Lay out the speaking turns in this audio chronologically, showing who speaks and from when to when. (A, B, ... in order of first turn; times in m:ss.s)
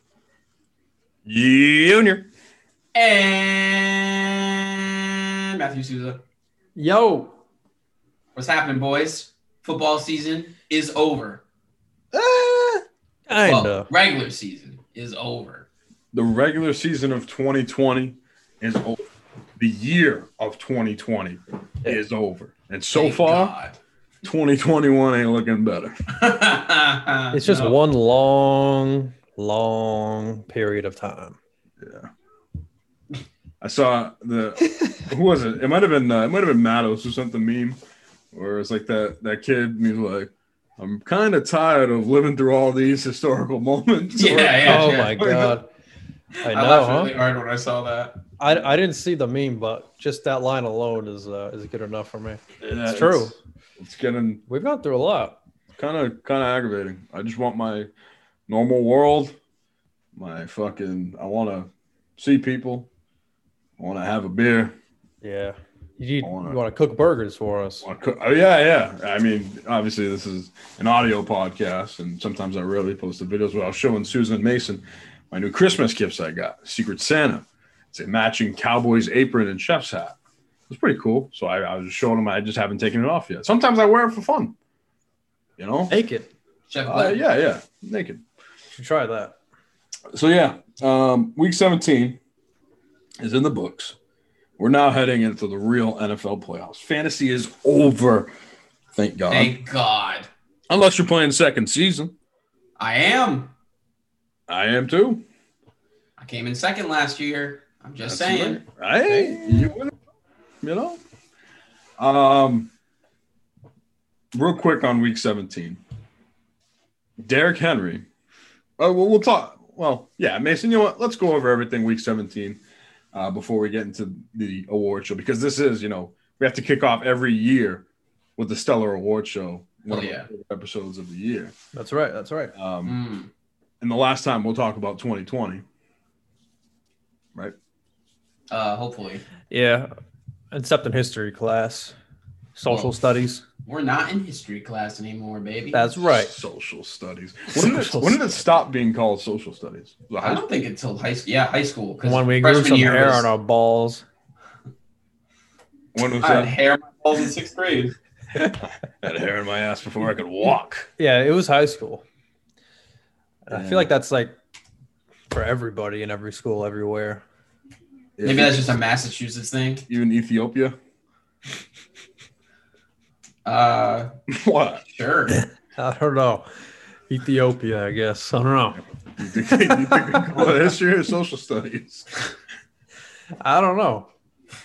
0:01.2-0:02.3 A
0:02.9-0:06.2 B
0:06.8-0:07.4 C
0:08.4-0:11.4 B
0:12.1-0:12.8 A
0:13.3-0:13.9 C
0:13.4-0:15.7 B
0:16.1-0:19.0 A
0:19.6-0:23.5 A
0:22.9-0:23.8 B
0:24.2-0:26.0 A
0:26.2-0:27.8 B
0:27.3-0:31.4 C
0:31.8-0:32.1 A
0:33.6-0:37.8 A
0:38.3-0:45.6 A
0:44.2-0:45.2 B
0:44.6-0:45.6 C
0:46.4-0:48.2 B
0:46.4-0:47.1 C
0:48.4-0:53.4 C
0:52.6-0:54.4 A
0:54.5-0:55.4 C
0:55.8-0:57.9 A
0:58.5-0:59.4 A
1:00.2-1:02.9 A
1:03.8-1:04.8 A
1:05.2-1:07.9 C
1:06.2-1:06.6 A
1:07.8-1:20.2 A
1:20.7-1:24.5 A
1:25.6-1:25.9 A
1:25.9-1:26.3 C
1:26.7-1:27.2 B
1:26.9-1:28.2 A
1:28.8-1:29.4 C
1:30.1-1:32.2 A
1:33.2-1:34.0 A
1:34.6-1:38.3 A
1:38.9-1:39.6 A
1:39.3-1:40.3 B
1:40.7-1:42.1 A
1:42.8-1:43.5 B
1:44.5-1:45.2 A
1:46.2-1:48.6 B
1:48.0-1:49.9 A
1:49.1-1:49.4 C
1:50.6-1:51.0 A
1:52.0-1:52.7 A
1:54.3-1:55.8 A
1:57.2-1:58.1 A
1:58.8-2:02.6 A
2:03.1-2:07.8 A
2:08.4-2:11.6 A
2:09.9-2:10.3 B
2:11.7-2:12.5 C
2:12.6-2:13.0 A
2:12.8-2:13.3 B
2:13.8-2:15.6 A
2:18.5-2:19.2 B
2:19.5-2:19.9 C
2:20.5-2:21.9 C
2:22.6-2:23.4 C
2:23.6-2:25.9 B
2:25.7-2:26.4 C
2:26.0-2:30.4 A
2:27.5-2:28.2 C
2:30.2-2:33.3 B
2:32.0-2:34.0 C
2:35.9-2:36.5 A
2:36.2-2:38.0 B
2:39.0-2:40.9 A
2:41.0-2:42.0 C
2:43.5-2:44.3 C
2:43.5-2:43.9 A
2:45.3-2:47.2 C
2:48.2-2:48.7 A
2:48.2-2:49.9 B
2:49.9-2:50.8 A
2:53.4-2:54.1 B
2:54.3-2:54.8 A
2:54.9-2:55.4 B
2:55.8-2:56.5 C
2:57.1-2:58.8 C
2:59.2-3:02.1 A
2:59.4-3:00.4 C
3:03.4-3:04.1 C